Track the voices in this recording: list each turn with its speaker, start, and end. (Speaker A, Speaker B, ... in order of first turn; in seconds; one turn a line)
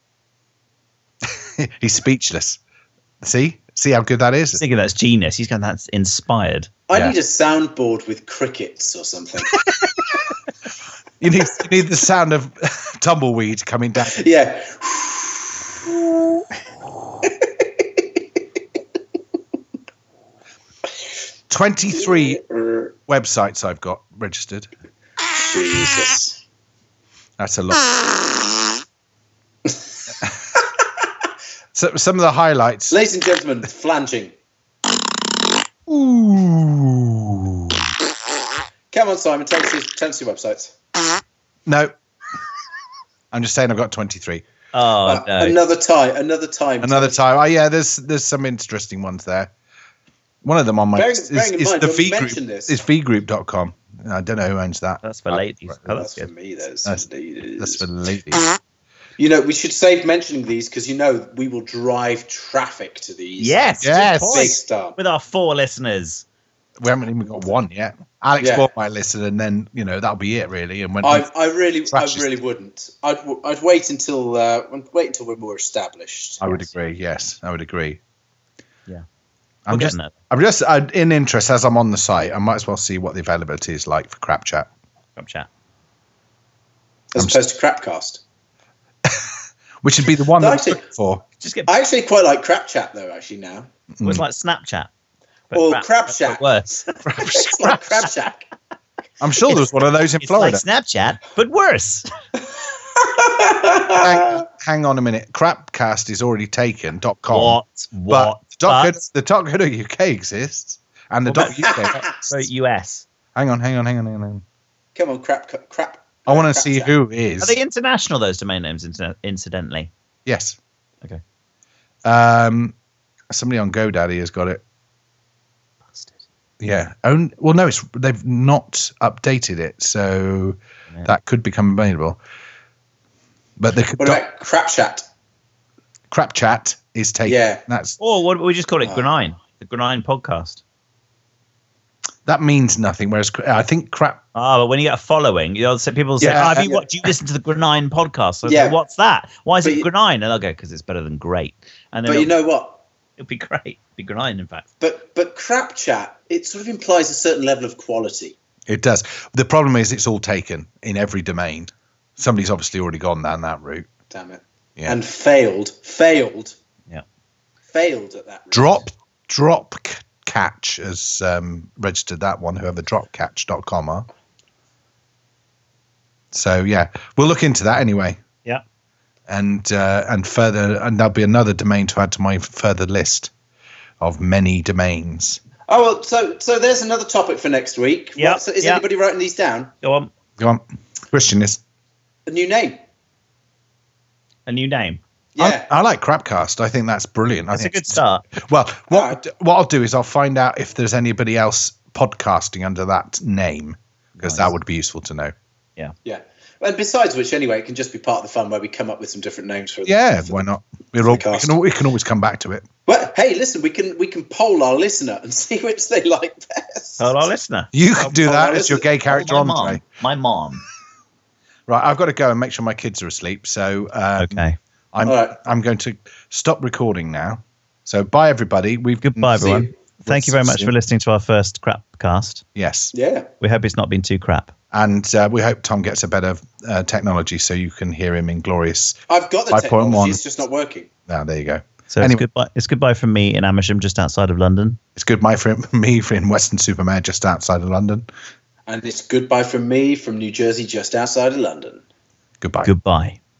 Speaker A: 1.2-2.6
Speaker A: 3.2-4.6
Speaker B: 4.5-6.7
Speaker C: 6.9-9.6
Speaker A: 11.2-14.2
Speaker C: 14.1-15.5
Speaker C: 17.2-18.2
Speaker A: 21.5-22.4
Speaker C: 21.9-22.9
Speaker A: 23.1-24.7
Speaker C: 25.3-26.4
Speaker A: 27.4-28.0
Speaker A: 31.7-33.0
Speaker C: 32.9-34.3
Speaker A: 35.9-37.9
Speaker C: 38.9-40.7
Speaker A: 41.7-41.9
Speaker A: 43.3-44.4
Speaker B: 44.7-45.6
Speaker C: 45.0-47.2
Speaker A: 46.8-49.5
Speaker A: 50.4-55.8
Speaker C: 51.0-52.8
Speaker B: 55.0-56.3
Speaker C: 55.9-57.9
Speaker A: 57.6-58.4
Speaker C: 59.2-63.7
Speaker B: 63.4-66.2
Speaker A: 63.8-64.5
Speaker C: 64.3-65.0
Speaker A: 66.8-71.3
Speaker C: 68.4-68.7
Speaker C: 71.0-76.4
Speaker A: 71.9-72.3
Speaker A: 76.4-78.0
Speaker A: 79.7-84.7
Speaker B: 79.7-80.2
Speaker B: 85.2-85.5
Speaker C: 87.1-88.2
Speaker A: 89.8-91.2
Speaker C: 90.4-90.8
Speaker B: 91.4-91.7
Speaker C: 91.7-93.7
Speaker A: 94.0-94.2
Speaker B: 94.0-94.9
Speaker B: 95.5-97.0
Speaker C: 95.5-98.5
Speaker A: 97.1-97.8
Speaker A: 99.2-100.6
Speaker B: 100.2-102.1
Speaker C: 103.0-104.3
Speaker A: 103.9-112.5
Speaker B: 107.3-109.0
Speaker B: 111.3-113.0
Speaker C: 111.7-112.0
Speaker A: 113.3-114.4
Speaker C: 115.0-116.9
Speaker A: 116.3-117.6
Speaker B: 117.4-119.9
Speaker A: 120.3-120.6
Speaker A: 122.0-122.8
Speaker A: 123.3-124.6
Speaker A: 126.6-132.2
Speaker A: 133.6-134.2
Speaker C: 134.0-135.1
Speaker A: 136.1-138.0
Speaker C: 137.2-137.6
Speaker B: 138.0-140.6
Speaker A: 142.3-144.2
Speaker B: 144.3-152.3
Speaker A: 146.2-146.6
Speaker C: 146.3-146.9
Speaker C: 148.4-148.8
Speaker C: 149.6-149.9
Speaker C: 152.1-152.8
Speaker B: 153.2-154.7
Speaker C: 154.8-158.4
Speaker A: 158.7-163.9
Speaker C: 164.1-166.6
Speaker C: 167.7-168.9
Speaker A: 168.5-174.1
Speaker A: 176.3-178.2
Speaker A: 179.3-183.3
Speaker A: 184.0-185.4
Speaker C: 185.7-189.7
Speaker B: 188.2-188.8
Speaker B: 189.8-190.1
Speaker A: 190.4-191.6
Speaker C: 192.3-192.8
Speaker B: 194.5-195.0
Speaker C: 195.3-195.7
Speaker A: 195.4-205.3
Speaker B: 197.5-198.2
Speaker C: 198.9-199.2
Speaker B: 204.2-204.5
Speaker C: 206.1-210.5
Speaker A: 209.9-212.7
Speaker C: 211.0-211.6
Speaker C: 212.9-217.2
Speaker B: 217.0-217.7
Speaker A: 217.7-219.8
Speaker C: 218.0-218.9
Speaker B: 219.1-220.7
Speaker A: 221.7-230.7
Speaker B: 224.2-224.6
Speaker C: 225.1-225.3
Speaker B: 229.0-232.4
Speaker A: 232.6-232.9
Speaker C: 232.9-233.3
Speaker B: 233.4-234.5
Speaker A: 234.7-239.0
Speaker C: 239.1-240.9
Speaker A: 239.5-240.2
Speaker A: 241.1-242.2
Speaker B: 241.9-244.8
Speaker A: 244.9-248.1
Speaker C: 248.7-251.8
Speaker A: 252.4-252.7
Speaker B: 252.7-253.2